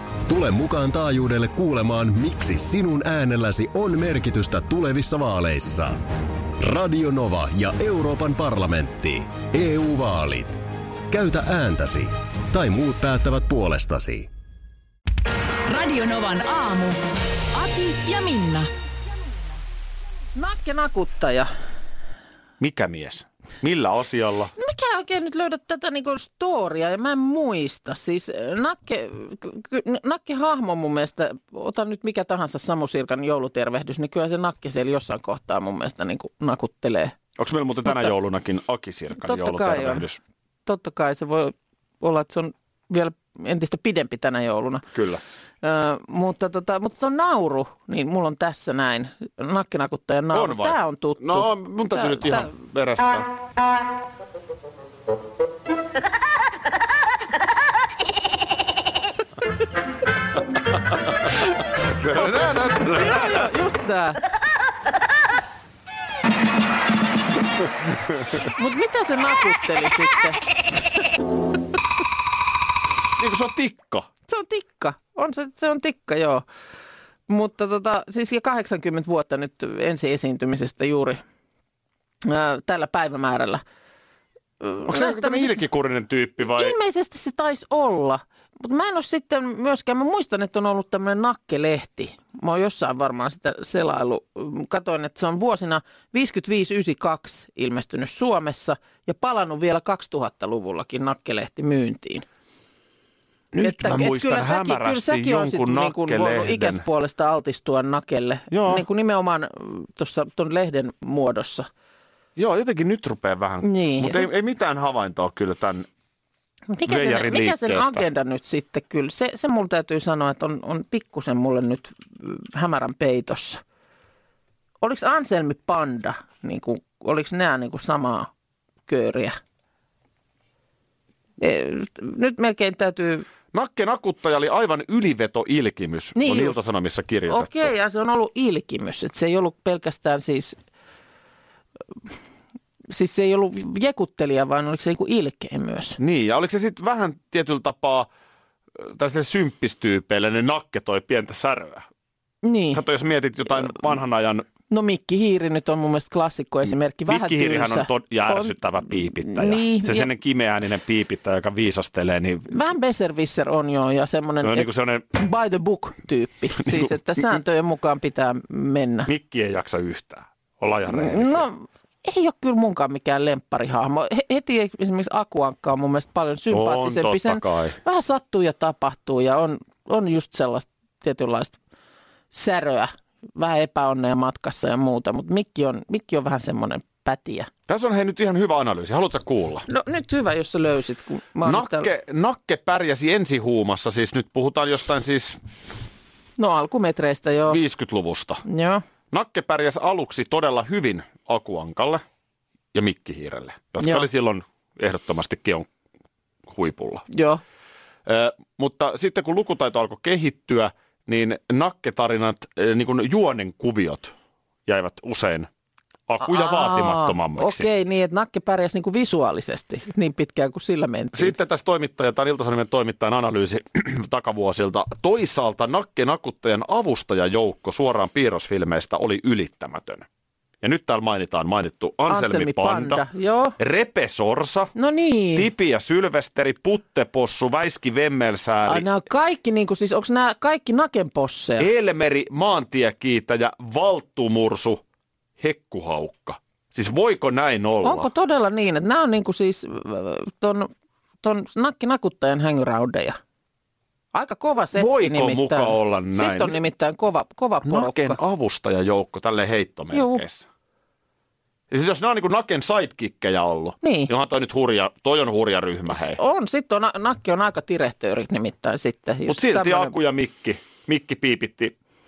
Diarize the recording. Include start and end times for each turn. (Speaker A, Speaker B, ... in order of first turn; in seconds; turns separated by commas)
Speaker A: 0.3-6.0, Speaker A: 6.6-14.3, Speaker B: 15.7-17.0, Speaker B: 17.5-18.7, Speaker C: 20.4-21.5, Speaker D: 22.6-24.5, Speaker C: 24.6-37.2, Speaker D: 37.4-40.2, Speaker C: 39.2-40.0, Speaker C: 40.7-44.9, Speaker D: 44.9-45.2, Speaker C: 45.6-52.5, Speaker D: 50.3-53.3, Speaker D: 61.9-63.5, Speaker C: 62.2-64.2, Speaker C: 68.4-70.4, Speaker D: 73.2-74.1, Speaker C: 74.3-76.5, Speaker C: 77.3-81.2, Speaker C: 82.2-83.6, Speaker C: 84.6-85.6, Speaker D: 84.9-86.8, Speaker C: 86.4-102.2, Speaker D: 103.5-106.8, Speaker C: 103.6-111.7, Speaker D: 108.5-108.8, Speaker D: 112.4-115.9, Speaker C: 113.6-114.3, Speaker C: 116.7-123.6, Speaker D: 116.9-118.0, Speaker C: 124.8-128.3, Speaker C: 128.9-129.4, Speaker C: 131.4-133.3, Speaker D: 133.5-137.7, Speaker C: 136.2-136.6, Speaker C: 137.3-140.6, Speaker C: 142.9-146.0, Speaker D: 146.0-148.1, Speaker D: 148.8-151.9, Speaker C: 152.4-152.8, Speaker D: 152.7-154.5, Speaker C: 154.7-160.1, Speaker D: 157.1-162.5, Speaker C: 162.5-169.1, Speaker D: 164.4-165.1, Speaker D: 166.7-166.9, Speaker D: 169.1-171.5, Speaker C: 170.9-181.6, Speaker D: 176.5-177.8, Speaker C: 182.3-187.5, Speaker D: 187.7-189.7, Speaker C: 189.7-191.9, Speaker D: 191.4-195.4, Speaker C: 196.4-197.6, Speaker D: 197.5-198.4, Speaker C: 198.5-198.8, Speaker D: 199.1-202.0, Speaker D: 202.7-205.7, Speaker C: 203.8-204.1, Speaker D: 206.5-207.1, Speaker C: 207.1-207.4, Speaker D: 208.1-214.1, Speaker D: 214.7-215.5, Speaker D: 216.1-217.7, Speaker C: 216.2-221.4, Speaker D: 221.1-230.1, Speaker D: 230.6-233.0, Speaker C: 232.1-233.6, Speaker D: 233.6-234.7, Speaker C: 234.8-235.5, Speaker D: 235.3-238.9, Speaker C: 238.7-241.7, Speaker D: 241.6-244.8, Speaker D: 245.4-248.1, Speaker C: 247.8-250.7, Speaker C: 251.2-253.2, Speaker C: 254.1-258.2, Speaker D: 254.8-256.6, Speaker D: 257.6-260.4, Speaker C: 259.9-260.2, Speaker D: 261.7-266.2, Speaker C: 263.8-264.1, Speaker C: 265.9-270.0, Speaker D: 269.3-271.8